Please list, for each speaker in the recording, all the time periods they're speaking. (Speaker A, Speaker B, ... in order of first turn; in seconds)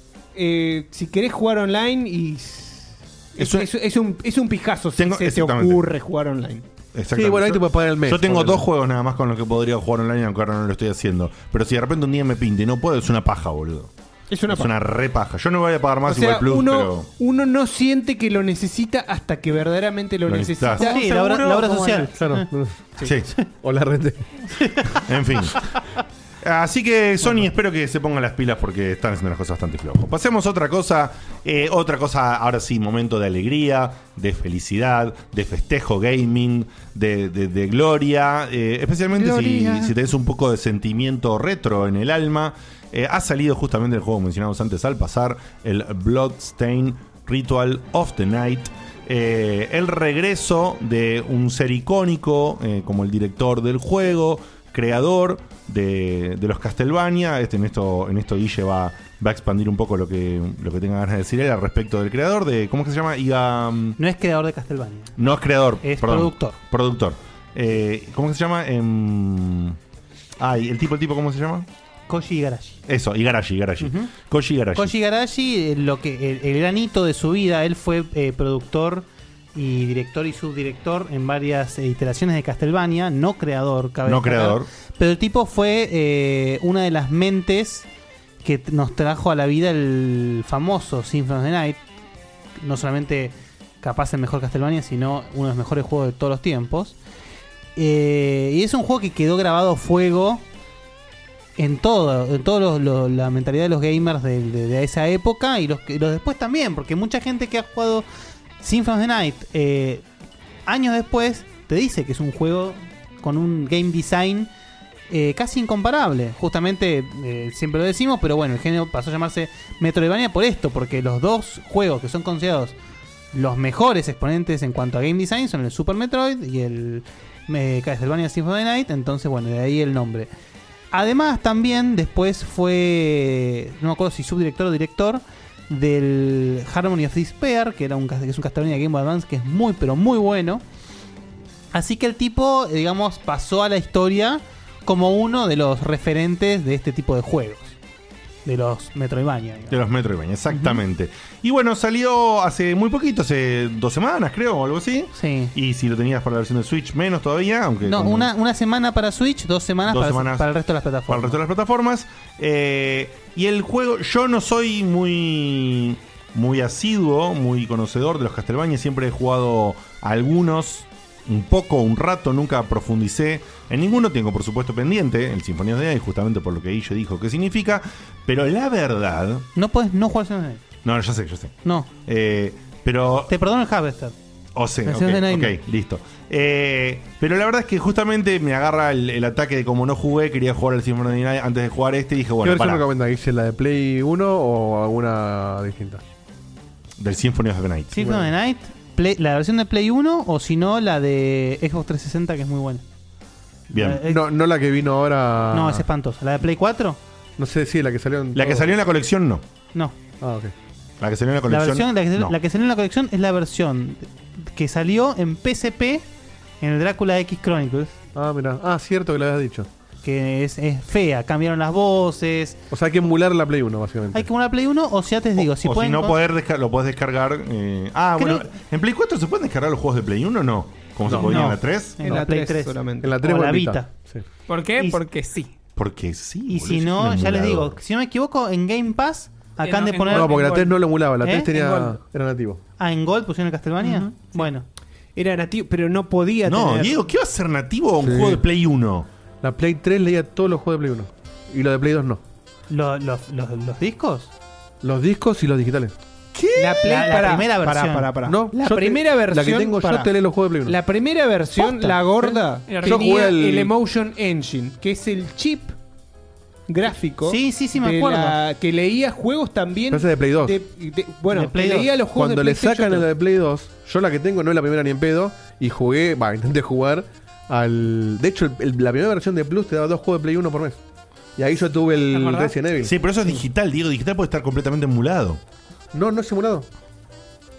Speaker A: 0.3-6.7, 14.3-14.7, 16.1-21.0, 232.0-233.1, 245.2-247.0, 256.6-260.1, 260.6-265.8, 266.7-273.1
Speaker B: 3.4-3.7, 5.0-5.9, 6.9-13.9, 14.5-17.1, 20.3-20.9, 23.0-23.3, 25.0-25.7, 26.4-64.0, 65.2-69.8, 70.4-71.7, 72.9-74.9, 84.1-84.7, 149.7-158.3, 159.9-160.5, 161.1-179.5, 180.8-183.3, 184.6-192.8, 197.0-198.0, 203.7-204.0, 208.3-209.4, 211.0-212.4, 225.4-232.0, 235.8-237.7, 246.4-249.1, 256.4-256.9, 282.8-285.4
Speaker C: 7.1-8.7, 22.1-22.8, 23.6-24.6, 192.4-196.0, 198.0-198.3, 203.7-205.9, 207.4-208.7, 210.2-210.5, 218.2-219.7, 222.7-224.3, 231.1-231.4, 233.0-234.2, 240.1-242.6, 248.0-248.4, 249.4-252.2, 254.8-255.9, 258.3-260.8, 262.8-263.7, 269.9-270.6, 272.1-280.8, 281.4-283.0, 285.9-286.6
Speaker D: 20.8-22.5, 24.6-25.0, 39.1-39.9, 64.0-65.2, 65.8-66.6, 72.1-72.8, 73.8-74.1, 74.7-87.9, 88.4-91.8, 92.6-97.0, 97.8-100.4, 101.6-108.1, 108.6-110.0, 110.7-114.5, 115.1-122.8, 123.3-130.3, 130.9-140.6, 141.7-147.8, 148.4-149.8, 150.5-150.8, 155.1-155.5, 157.8-161.4, 179.6-180.6, 183.3-184.1, 184.8-185.6, 197.9-202.8, 203.7-204.2, 205.5-207.0, 211.5-216.0, 216.6-217.9, 220.0-222.6, 224.1-226.2, 228.2-228.5, 231.1-233.9, 236.5-240.6, 241.2-241.5, 242.8-244.6, 252.7-254.3, 256.8-258.1, 261.6-262.0, 267.2-268.4, 271.3-271.9
Speaker E: 20.8-22.1, 234.5-235.5, 239.6-240.8, 241.5-241.9, 243.8-244.3, 262.7-263.3, 282.1-282.6